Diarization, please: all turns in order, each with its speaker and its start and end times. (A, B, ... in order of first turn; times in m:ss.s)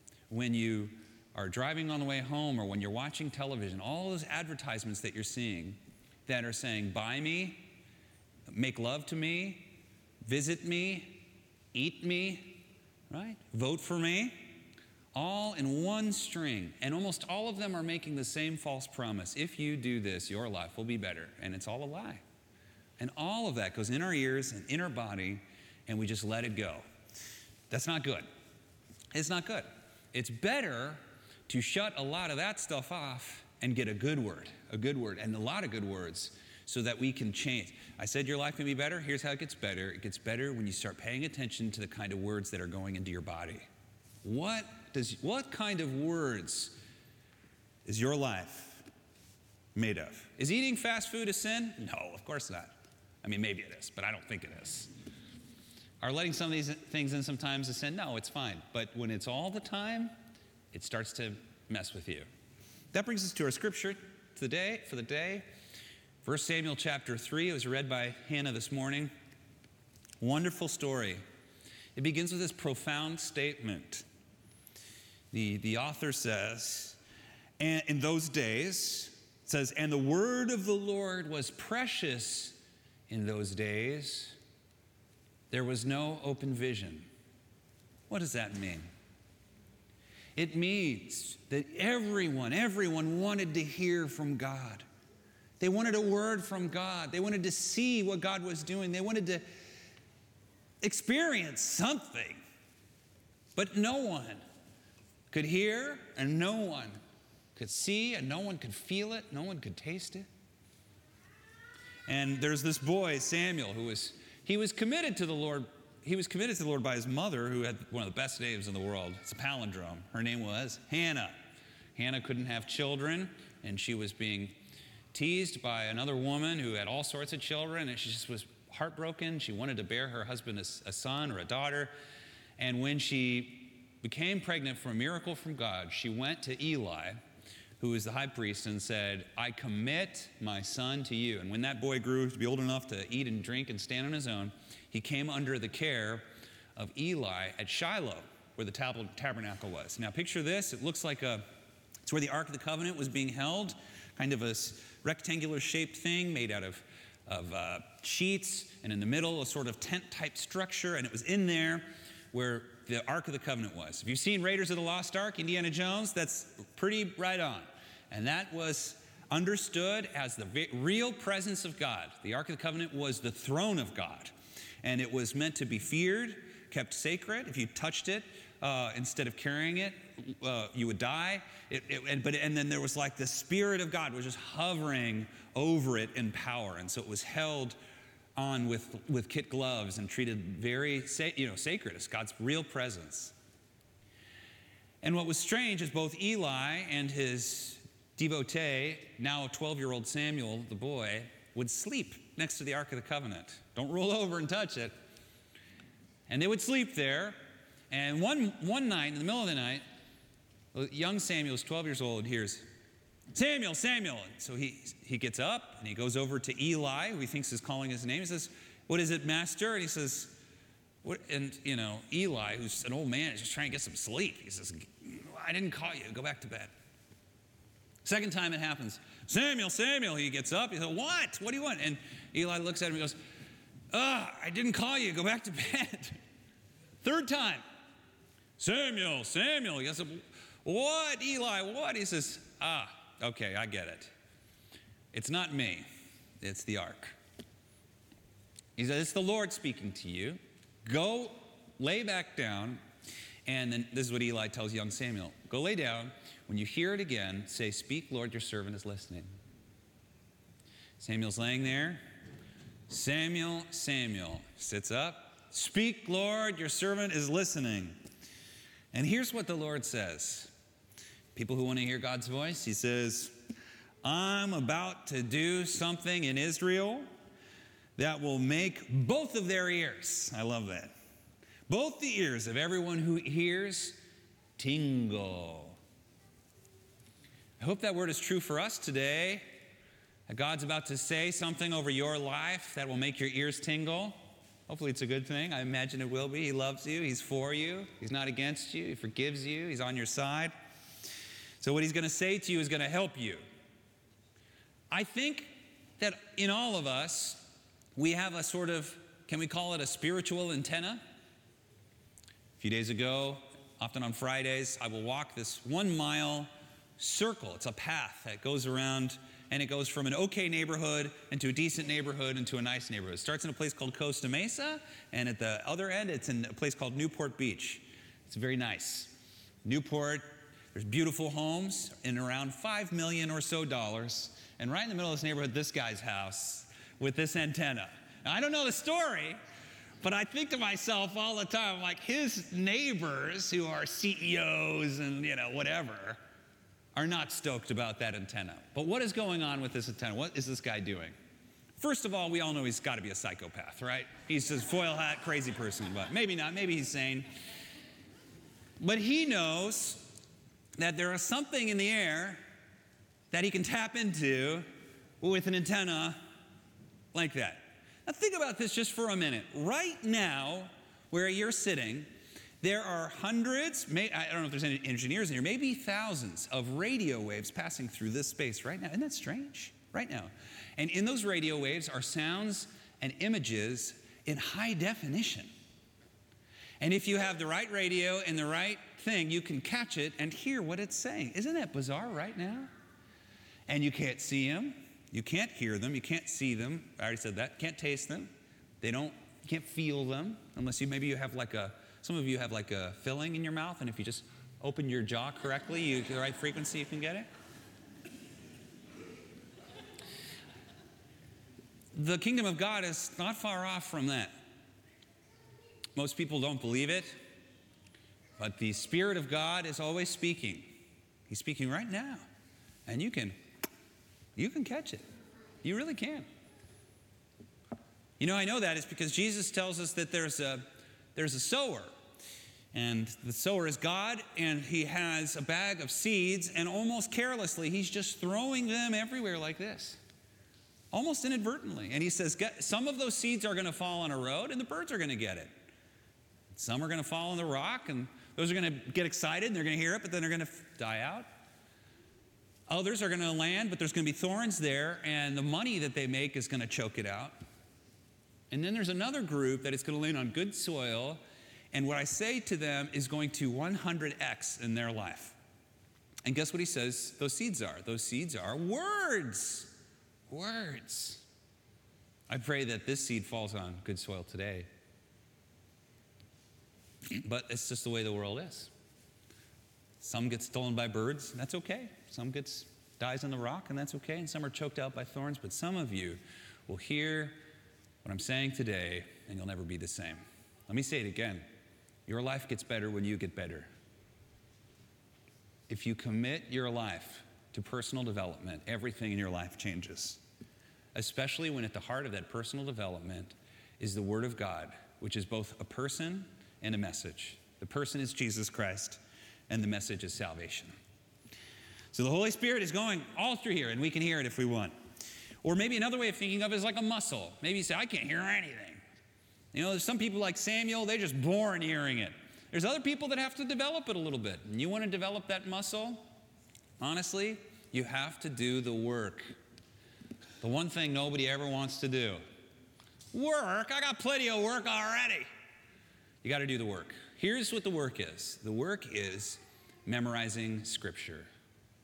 0:00.3-0:07.7 A
0:08.5-0:14.5 A
0:15.1-0:22.2 A
0:23.0-0:26.8 A
0:27.7-0:28.3 A
0:29.1-0:43.7 A
0:44.2-0:46.8 A
0:47.8-0:48.8 A
0:49.8-0:54.9 A
0:56.0-1:00.1 A
1:00.7-1:02.3 A
1:02.9-1:05.4 A
1:06.2-1:09.1 A
1:10.2-1:11.2 A
1:12.0-1:14.1 A
1:15.3-1:17.0 A
1:17.6-1:24.4 A
1:25.5-1:27.1 A
1:28.1-1:28.9 A
1:30.4-1:34.9 A
1:35.6-1:39.4 A
1:40.8-1:42.4 A
1:43.6-1:44.4 A
1:45.3-1:47.0 A
1:47.6-1:50.3 A
1:52.1-2:01.4 A
2:02.0-2:04.6 A
2:05.1-2:11.9 A
2:12.6-2:17.2 A
2:17.8-2:31.4 A
2:32.0-2:54.3 A
2:54.8-3:07.8 A
3:08.4-3:13.3 A
3:15.0-3:24.9 A
3:26.3-3:27.4 A
3:27.9-3:29.8 A
3:30.7-3:32.7 A
3:33.3-3:40.4 A
3:41.0-3:46.7 A
3:48.0-3:53.2 A
3:53.9-3:56.2 A
3:57.0-3:57.6 A
3:58.6-4:04.1 A
4:05.1-4:05.9 A
4:06.4-4:07.2 A
4:08.8-4:12.8 A
4:13.5-4:19.3 A
4:21.0-4:22.0 A
4:22.9-4:28.0 A
4:28.9-4:30.5 A
4:31.4-4:33.4 A
4:34.0-4:37.1 A
4:38.0-4:40.9 A
4:41.7-4:44.0 A
4:44.6-4:45.8 A
4:47.6-4:49.4 A
4:50.3-4:54.2 A
4:54.7-5:00.5 A
5:01.6-5:03.4 A
5:04.9-5:11.0 A
5:12.6-5:29.1 A
5:29.6-5:39.4 A
5:40.0-5:46.2 A
5:47.0-5:51.2 A
5:51.8-5:57.3 A
5:58.8-6:00.1 A
6:00.8-6:02.4 A
6:03.3-6:04.7 A
6:05.2-6:06.2 A
6:07.1-6:12.1 A
6:12.6-6:25.5 A
6:26.8-6:32.7 A
6:33.7-6:38.3 A
6:38.8-6:47.3 A
6:51.9-6:54.3 A
6:56.0-6:57.2 A
6:58.4-7:00.7 A
7:01.3-7:02.3 A
7:02.9-7:03.4 A
7:04.4-7:05.0 A
7:05.6-7:06.3 A
7:08.2-7:11.9 A
7:12.7-7:20.0 A
7:20.9-7:25.5 A
7:26.5-7:31.3 A
7:32.7-7:37.4 A
7:38.5-7:45.4 A
7:46.2-7:49.7 A
7:50.3-7:51.2 A
7:52.3-7:54.7 A
7:57.1-7:58.7 A
8:00.0-8:07.4 A
8:08.0-8:11.4 A
8:12.1-8:13.7 A
8:15.7-8:20.2 A
8:21.0-8:30.8 A
8:31.9-8:34.8 A
8:35.4-8:38.8 A
8:39.5-8:46.0 A
8:46.8-8:49.3 A
8:50.4-8:52.2 A
8:53.1-8:55.3 A
8:56.2-9:01.3 A